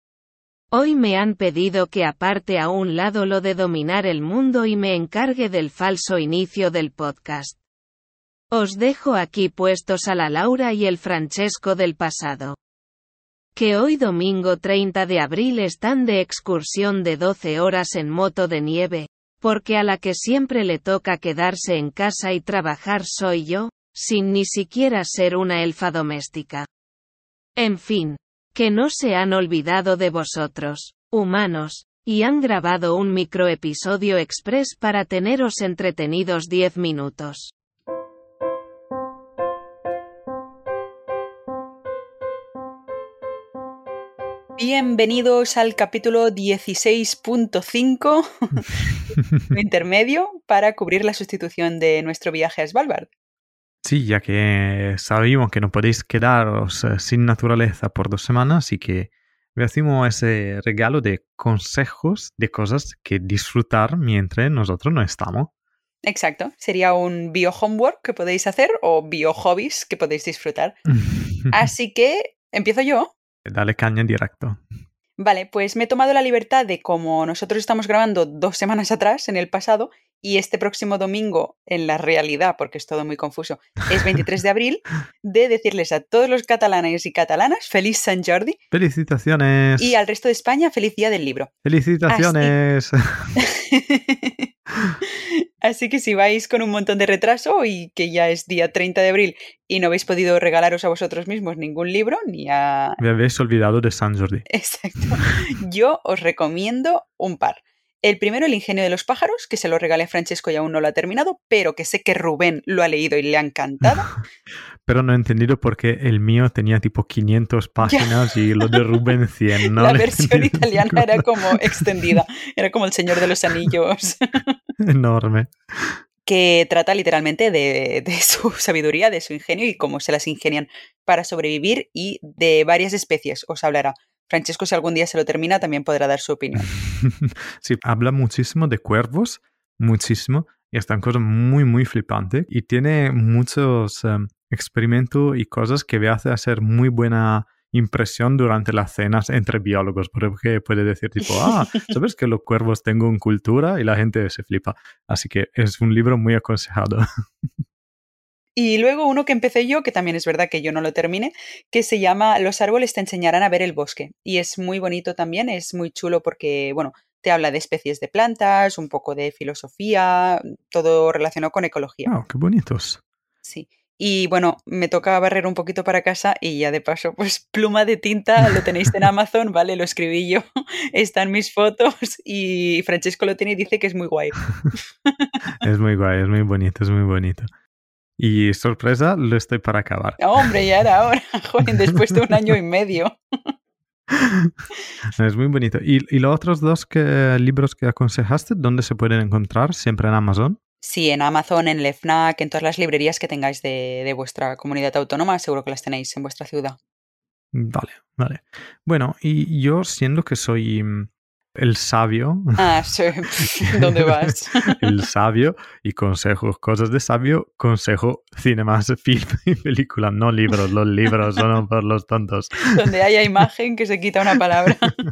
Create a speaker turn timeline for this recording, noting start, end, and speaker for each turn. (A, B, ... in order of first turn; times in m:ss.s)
0:00.7-0:07.6 A
0:08.5-0:12.6 A
0:13.6-0:26.7 A
0:27.6-0:37.5 A
0:44.6-0:48.9 B
0:49.5-0:53.1 B
0:53.8-1:05.5 C
1:06.0-1:10.8 B
1:11.0-1:11.5 C
1:11.5-1:13.1 B
1:13.5-1:14.6 C
1:15.2-1:28.6 B
1:28.7-1:30.0 C
1:29.8-1:31.5 B
1:31.6-1:33.0 C
1:32.1-1:32.6 B
1:33.4-1:34.5 B
1:35.0-1:43.0 B
1:43.0-1:44.5 C
1:44.5-1:54.1 B
1:54.8-2:02.2 C
1:57.8-1:58.4 B
1:59.7-2:04.6 B
2:04.8-2:06.0 C
2:06.3-2:16.7 B
2:16.6-2:37.0 C
2:38.6-2:52.1 B
2:52.1-2:53.0 C
2:53.4-3:05.4 B
3:05.6-3:07.5 C
3:08.2-3:10.5 C
3:10.2-3:13.5 B
3:14.1-3:14.5 C
3:15.2-3:20.6 C
3:20.8-3:26.8 B
3:27.5-3:32.9 C
3:32.6-3:34.9 B
3:34.3-3:42.8 C
3:42.6-3:45.0 B